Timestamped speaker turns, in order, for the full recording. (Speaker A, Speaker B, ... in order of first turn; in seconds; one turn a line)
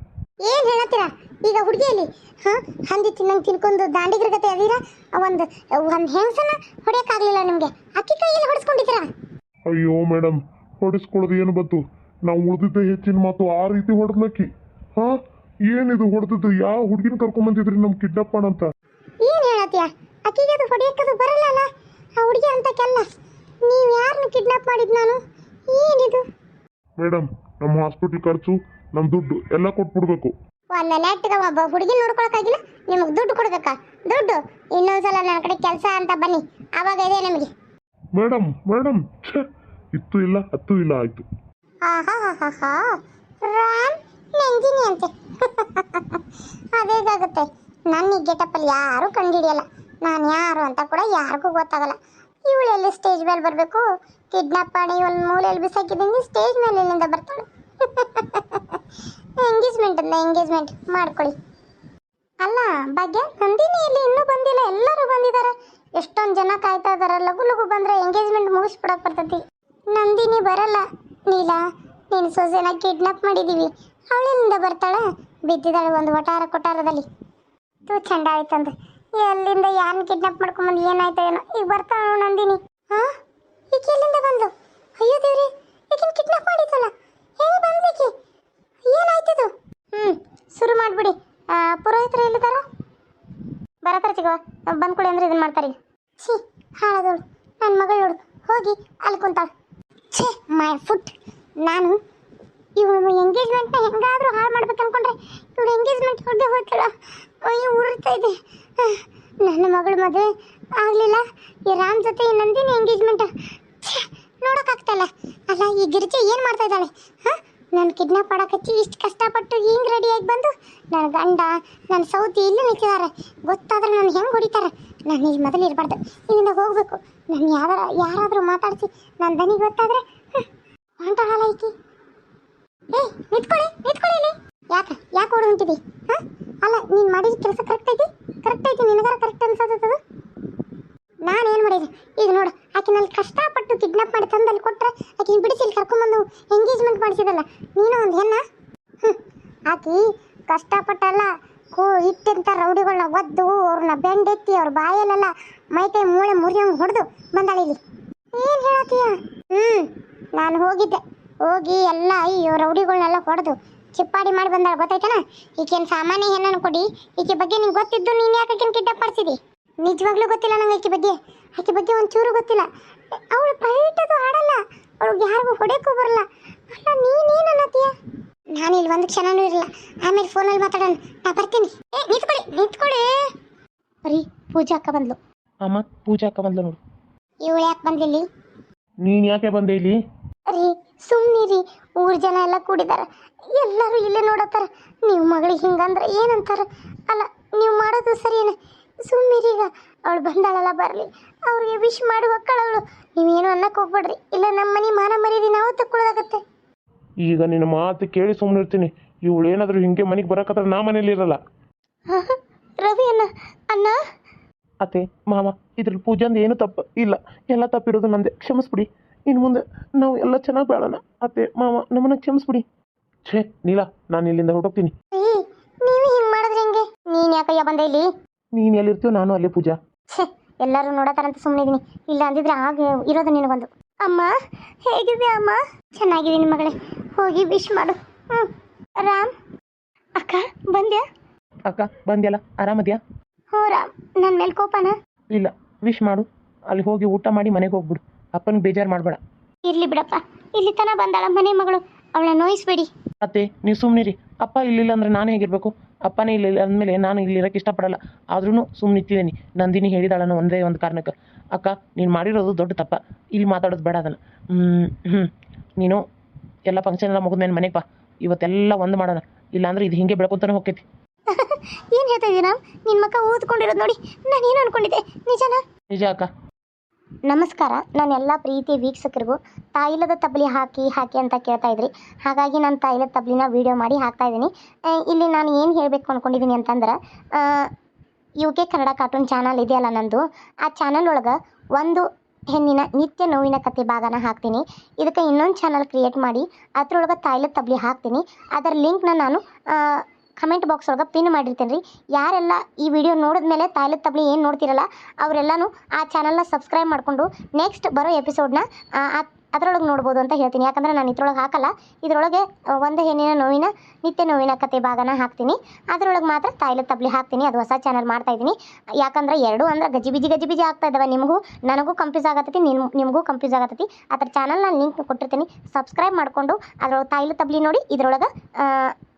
Speaker A: 0.4-9.1
Speaker B: 9.7-15.2
Speaker B: 15.7-18.7
Speaker A: 19.2-21.7
Speaker A: 22.2-23.0
Speaker A: 23.6-25.2
Speaker A: 25.7-26.2
Speaker B: 27.0-30.3
Speaker A: 30.7-37.5
Speaker B: 38.1-41.2
Speaker A: 41.9-42.8
Speaker A: 43.4-46.0
Speaker A: 46.8-52.0
Speaker A: 52.5-58.6
Speaker A: 59.4-61.3
Speaker A: 62.4-69.4
Speaker A: 69.9-77.0
Speaker A: 77.9-83.1
Speaker A: 83.7-88.1
Speaker A: 88.9-92.6
Speaker A: 93.8-99.5
Speaker A: 100.1-101.1
Speaker A: 101.7-101.9
Speaker A: 102.8-106.9
Speaker A: 107.5-108.9
Speaker A: 109.5-110.2
Speaker A: 110.8-113.3
Speaker A: 113.9-116.9
Speaker A: 117.8-130.0
Speaker A: 131.0-131.7
Speaker A: 132.9-140.0
Speaker A: 141.2-148.4
Speaker A: 149.7-157.8
Speaker A: 158.3-172.7
Speaker A: 173.3-176.2
Speaker A: 176.7-177.9
Speaker A: 178.6-183.1
Speaker A: 184.0-185.2
Speaker C: 185.6-186.8
Speaker A: 187.4-188.2
Speaker C: 189.0-189.9
Speaker A: 190.5-206.4
Speaker C: 207.2-211.4
Speaker A: 212.1-214.0
Speaker C: 214.8-222.6
Speaker C: 223.2-224.9
Speaker A: 225.2-228.1
Speaker C: 228.6-229.8
Speaker A: 230.1-234.3
Speaker A: 234.8-239.3
Speaker A: 240.2-241.0
Speaker C: 241.7-243.0
Speaker A: 243.5-244.9
Speaker C: 245.3-249.2
Speaker A: 249.7-252.9
Speaker C: 253.2-266.0
Speaker C: 266.7-270.8
Speaker A: 271.3-275.6
Speaker C: 275.9-276.3
Speaker A: 277.3-287.7
Speaker A: 288.4-328.9